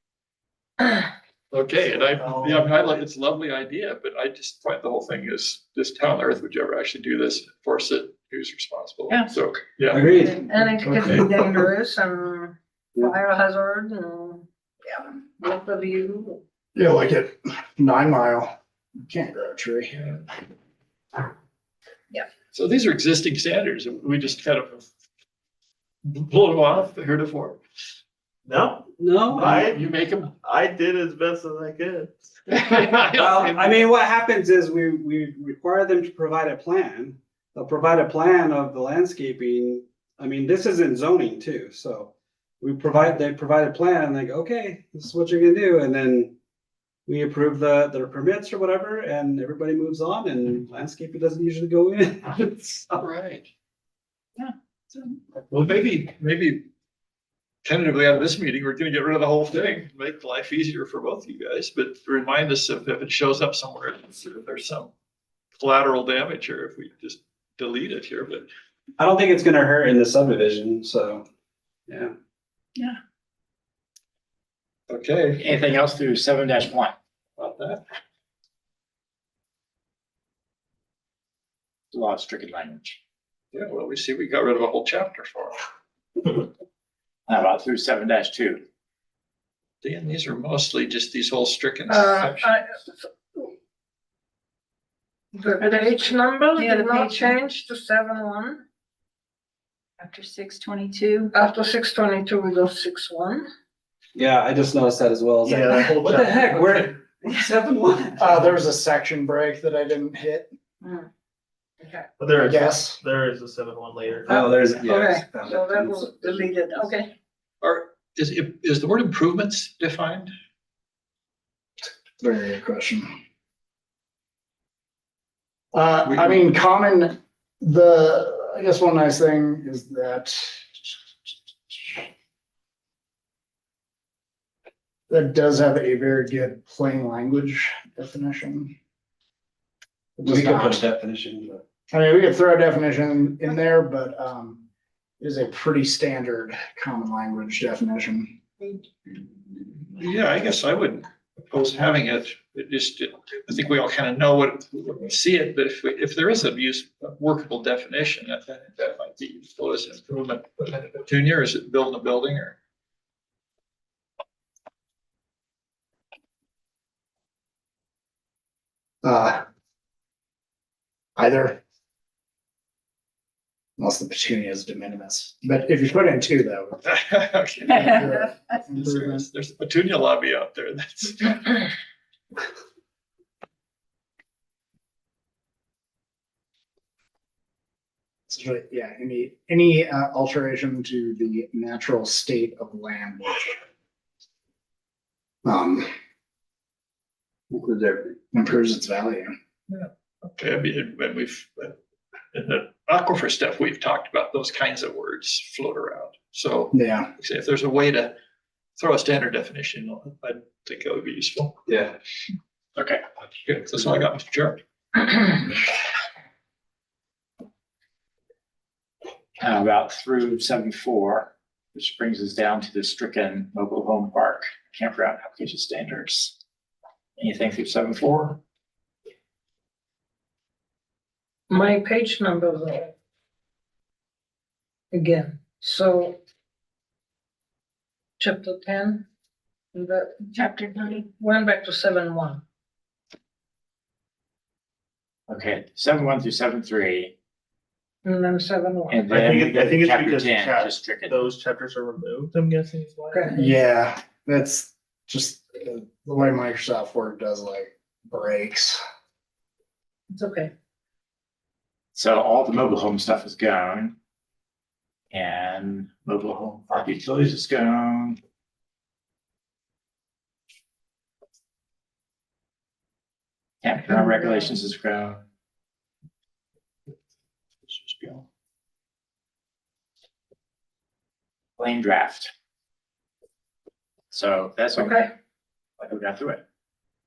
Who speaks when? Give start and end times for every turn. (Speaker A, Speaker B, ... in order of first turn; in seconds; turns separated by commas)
Speaker A: 1.5-10.2, Speaker B: 2.2-2.9, Speaker C: 9.9-11.2, Speaker D: 10.0-16.4, Speaker E: 16.7-18.5, Speaker E: 19.0-20.1, Speaker A: 22.5-24.9, Speaker A: 26.0-27.6, Speaker B: 28.4-32.3, Speaker C: 28.9-29.6, Speaker A: 29.5-30.3, Speaker A: 32.5-33.8, Speaker C: 33.1-46.3, Speaker C: 47.0-53.0, Speaker A: 53.0-53.5, Speaker A: 55.5-56.6, Speaker A: 57.6-64.9, Speaker A: 65.5-68.5, Speaker C: 69.0-71.2, Speaker C: 71.9-72.1, Speaker A: 74.9-75.4, Speaker F: 75.4-76.9, Speaker A: 77.4-77.8, Speaker F: 81.9-83.0, Speaker A: 83.5-85.6, Speaker F: 87.3-88.6, Speaker A: 89.8-92.5, Speaker D: 91.9-93.5, Speaker G: 95.3-97.4, Speaker D: 95.4-98.6, Speaker G: 100.0-101.3, Speaker D: 101.3-103.4, Speaker C: 104.1-108.6, Speaker B: 105.4-106.9, Speaker E: 108.2-110.5, Speaker D: 111.8-112.0, Speaker B: 112.2-114.5, Speaker E: 112.5-113.0, Speaker D: 114.2-117.1, Speaker C: 114.2-116.6, Speaker A: 117.6-120.3, Speaker E: 122.2-123.1, Speaker E: 125.7-132.1, Speaker A: 126.0-126.4, Speaker E: 135.1-138.7, Speaker C: 140.2-141.6, Speaker E: 140.2-140.8, Speaker E: 141.9-144.6, Speaker E: 145.2-148.3, Speaker A: 149.9-162.6, Speaker E: 169.0-169.4, Speaker E: 171.2-171.6, Speaker E: 173.8-176.8, Speaker A: 176.8-181.7, Speaker E: 177.7-179.2, Speaker E: 188.3-193.6, Speaker E: 195.4-195.9, Speaker C: 197.5-198.2, Speaker E: 198.2-199.3, Speaker A: 199.7-201.8, Speaker A: 202.3-208.1, Speaker E: 206.7-207.1, Speaker A: 208.8-211.6, Speaker C: 211.7-211.9, Speaker F: 212.7-213.0, Speaker A: 213.4-214.6, Speaker F: 219.4-226.4, Speaker F: 227.2-228.4, Speaker D: 231.5-232.9, Speaker D: 234.9-236.2, Speaker D: 238.2-239.1, Speaker D: 239.7-240.2, Speaker G: 240.3-241.1, Speaker D: 241.1-242.4, Speaker F: 245.3-247.1, Speaker D: 248.0-249.0, Speaker F: 248.9-251.2, Speaker B: 249.1-253.3, Speaker D: 253.1-253.6, Speaker E: 253.3-258.8, Speaker D: 260.1-260.5, Speaker F: 261.9-263.9, Speaker F: 265.1-268.2, Speaker F: 273.6-275.2, Speaker F: 277.7-278.2, Speaker F: 281.6-282.3, Speaker F: 284.1-285.0, Speaker D: 284.8-285.1, Speaker F: 285.8-286.4